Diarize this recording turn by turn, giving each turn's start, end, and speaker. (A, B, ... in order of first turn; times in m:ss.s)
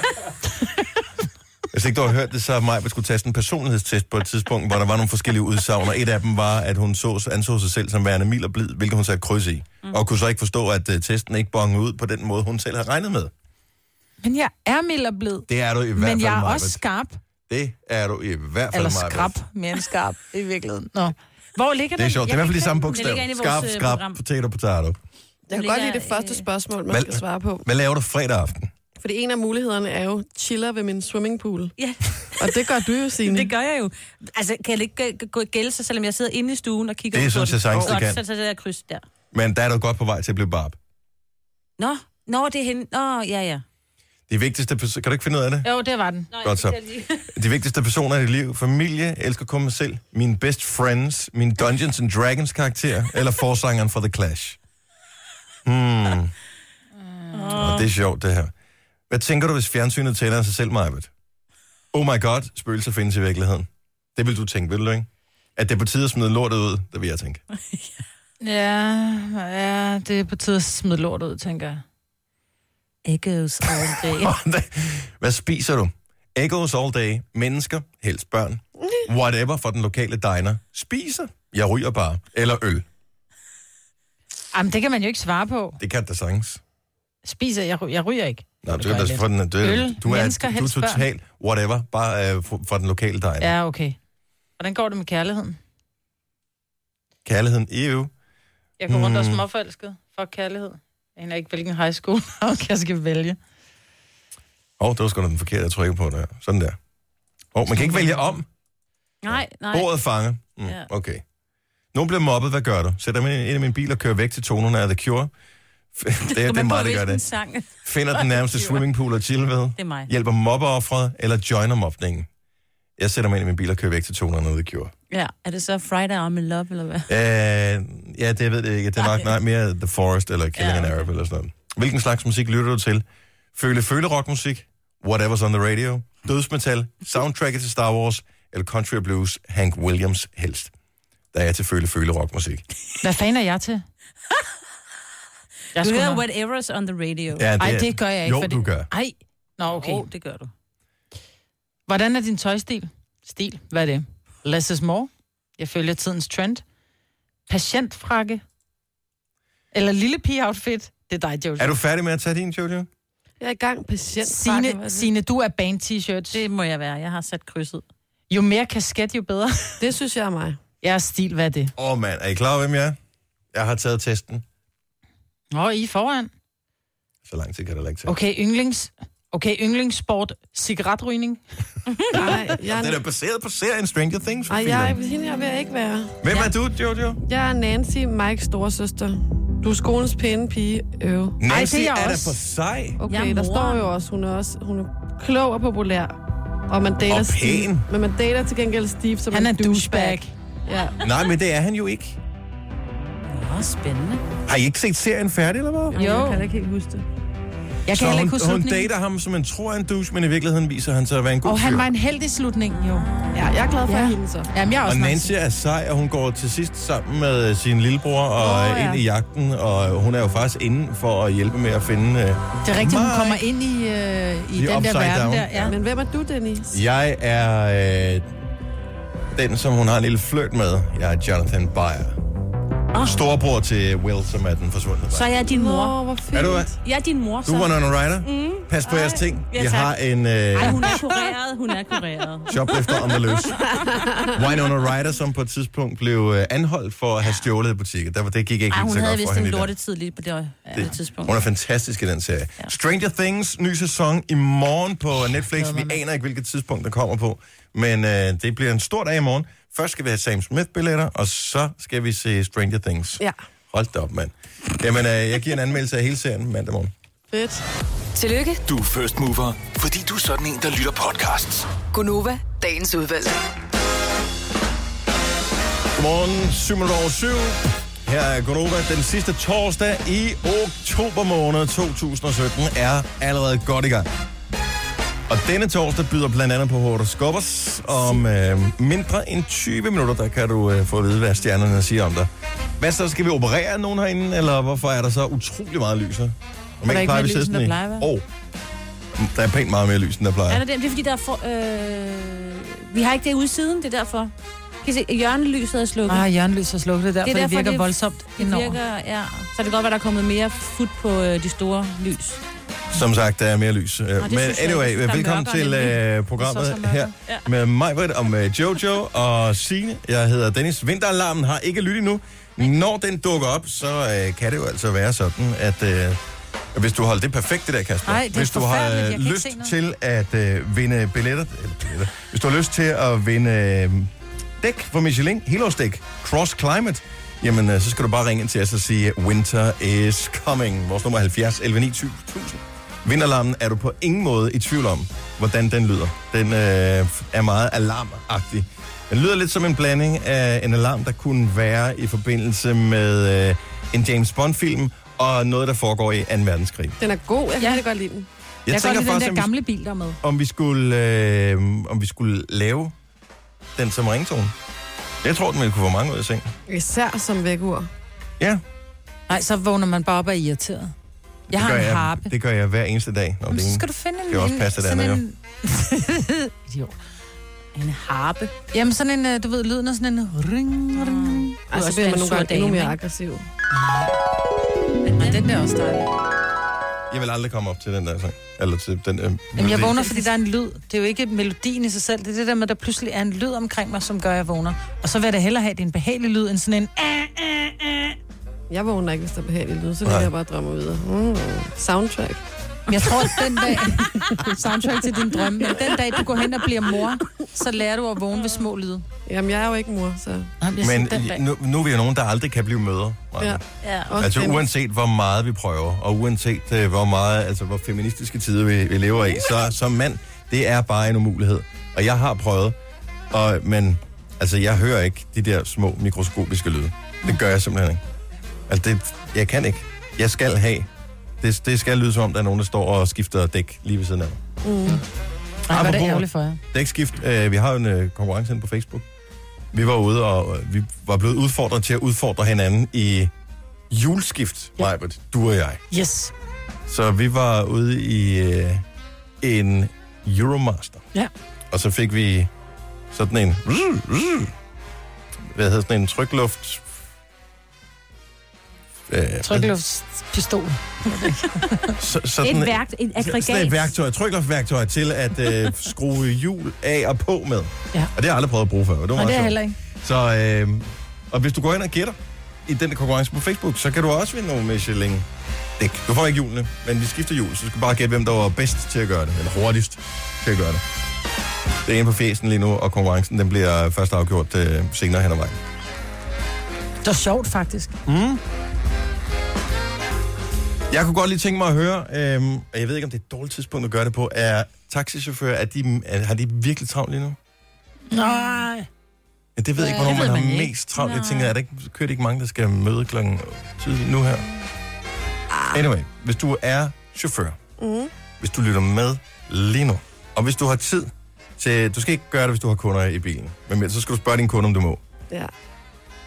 0:01.7-0:13.3 A
0:14.2-0:17.2 B
0:15.5-0:16.8 A
0:17.5-0:19.3 A
0:18.7-0:22.8 B
0:22.0-0:25.0 A
0:22.8-0:24.2 C
0:25.5-0:27.6 D
0:25.5-0:26.5 C
0:26.9-0:28.7 A
0:29.0-0:31.7 D
0:31.8-0:39.0 C
0:32.4-0:33.5 D
0:37.1-0:38.2 A
0:39.3-0:40.8 A
0:41.8-0:43.6 C
0:44.3-0:45.7 A
0:45.6-0:46.3 B
0:46.3-0:47.2 C
0:46.4-0:54.6 A
0:55.6-0:56.3 A
0:57.2-0:57.5 B
0:57.3-0:57.9 C
0:57.6-0:58.5 A
0:59.1-1:01.1 A
1:01.9-1:07.4 A
1:07.7-1:08.0 C
1:08.4-1:11.8 B
1:13.0-1:14.4 C
1:13.6-1:22.8 A
1:24.5-1:25.8 B
1:25.8-1:26.6 A
1:27.2-1:31.0 B
1:28.6-1:33.5 A
1:33.4-1:34.0 B
1:34.6-1:35.6 B
1:37.2-1:38.1 A
1:38.8-1:43.4 B
1:38.9-1:39.4 A
1:44.8-1:46.8 A
1:47.5-1:48.4 A
1:47.7-1:48.2 B
1:49.2-1:49.9 C
1:49.3-1:51.2 A
1:51.9-1:55.3 A
1:55.9-1:57.2 A
1:56.3-1:58.8 C
1:57.8-2:02.3 A
1:59.8-2:00.1 C
2:03.0-2:04.9 A
2:05.1-2:07.1 C
2:07.1-2:13.0 A
2:09.0-2:09.3 C
2:10.6-2:11.1 C
2:13.5-2:20.7 A
2:21.3-2:22.6 A
2:23.0-2:23.8 B
2:25.7-2:26.2 B
2:25.8-2:27.5 C
2:27.3-2:28.9 A
2:27.6-2:30.0 B
2:29.7-2:30.5 C
2:31.9-2:36.6 B
2:37.5-2:38.4 B
2:39.7-2:41.7 B
2:41.6-2:42.9 A
2:43.4-2:45.1 D
2:44.2-2:46.4 B
2:46.3-2:47.8 C
2:48.3-2:49.8 B
2:49.8-2:50.6 D
2:50.8-2:51.7 B
2:51.8-2:53.0 A
2:53.5-2:54.4 A
2:55.5-2:56.3 B
2:57.2-2:58.1 A
2:58.0-3:01.4 B
3:02.1-3:03.0 D
3:02.3-3:05.0 A
3:04.5-3:06.2 D
3:06.2-3:07.2 A
3:07.2-3:11.4 D
3:11.4-3:13.0 A
3:11.5-3:12.3 B
3:13.0-3:16.1 D
3:13.1-3:13.9 C
3:16.7-3:21.0 D
3:17.1-3:17.9 A
3:19.3-3:20.3 B
3:21.0-3:22.2 A
3:23.3-3:24.2 C
3:24.4-3:26.0 A
3:25.9-3:27.0 D
3:26.0-3:26.4 B
3:26.0-3:26.6 C
3:27.9-3:28.9 B
3:27.9-3:31.9 A
3:31.4-3:33.1 B
3:33.3-3:34.5 D
3:33.9-3:35.3 B
3:34.8-3:43.4 A
3:38.4-3:39.0 B
3:42.6-3:45.7 B
3:44.5-3:45.8 A
3:45.6-3:46.8 D
3:46.7-3:48.3 A
3:49.3-3:52.2 A
3:53.0-3:55.3 A
3:55.1-3:56.0 C
3:55.5-3:56.8 D
3:56.3-3:56.7 A
3:56.8-3:59.9 C
3:57.4-4:01.0 A
4:00.5-4:02.5 C
4:02.5-4:03.7 A
4:03.7-4:04.4 D
4:04.3-4:09.7 A
4:08.7-4:11.4 C
4:10.7-4:26.9 A
4:15.5-4:16.0 B
4:27.3-4:27.6 D
4:28.1-4:28.6 E
4:28.6-4:31.7 F
4:31.9-4:33.4 E
4:36.0-4:44.1 A
4:45.3-4:58.2 A
4:56.9-4:58.0 B
4:59.2-5:00.6 A
5:00.5-5:06.2 C
5:06.1-5:08.8 B
5:07.2-5:12.4 C
5:12.9-5:26.2 A
5:14.2-5:16.0 C
5:16.4-5:17.1 B
5:26.7-5:57.0 A
5:28.0-5:29.7 B
5:57.0-5:58.3 D
5:58.6-5:59.5 A
5:58.7-6:00.2 B
6:00.2-6:02.9 A
6:03.8-6:04.5 A
6:05.2-6:06.5 A
6:06.7-6:07.9 D
6:09.3-6:10.9 B
6:11.5-6:15.2 A
6:11.5-6:12.3 B
6:13.5-6:16.9 B
6:17.7-6:18.5 C
6:18.7-6:21.5 B
6:20.9-6:23.0 C
6:21.7-6:23.4 D
6:25.1-6:26.1 B
6:27.1-6:30.0 A
6:29.6-6:38.1 B
6:38.7-6:42.4 D
6:40.0-6:40.3 A
6:42.9-6:49.0 B
6:49.3-6:50.5 D
6:50.6-6:51.4 B
6:50.8-6:53.6 A
6:53.4-6:54.6 D
6:53.8-6:54.2 C
6:54.2-7:02.8 A
7:03.3-7:08.0 A
7:08.7-7:10.9 A
7:11.4-7:14.4 A
7:14.6-7:15.0 D
7:15.7-7:16.6 B
7:15.7-7:19.0 A
7:19.7-7:23.3 A
7:23.9-7:25.8 A
7:25.9-7:26.3 B
7:26.9-7:28.8 A
7:29.4-7:31.0 A
7:31.7-7:32.5 A
7:33.1-7:34.5 A
7:35.5-7:36.8 A
7:39.1-7:39.7 A
7:39.4-7:41.9 B
7:42.0-7:55.2 A
7:42.4-7:43.9 C
7:49.1-7:49.8 B
7:55.8-8:00.8 A
8:01.8-8:05.6 A
8:07.0-8:07.9 B
8:08.0-8:08.4 A
8:10.9-8:17.4 A
8:18.1-8:18.9 B
8:19.6-8:24.4 A
8:19.8-8:21.5 C
8:20.2-8:20.4 B
8:25.5-8:25.8 D
8:25.7-8:27.6 A
8:27.8-8:28.1 D
8:28.4-8:35.0 A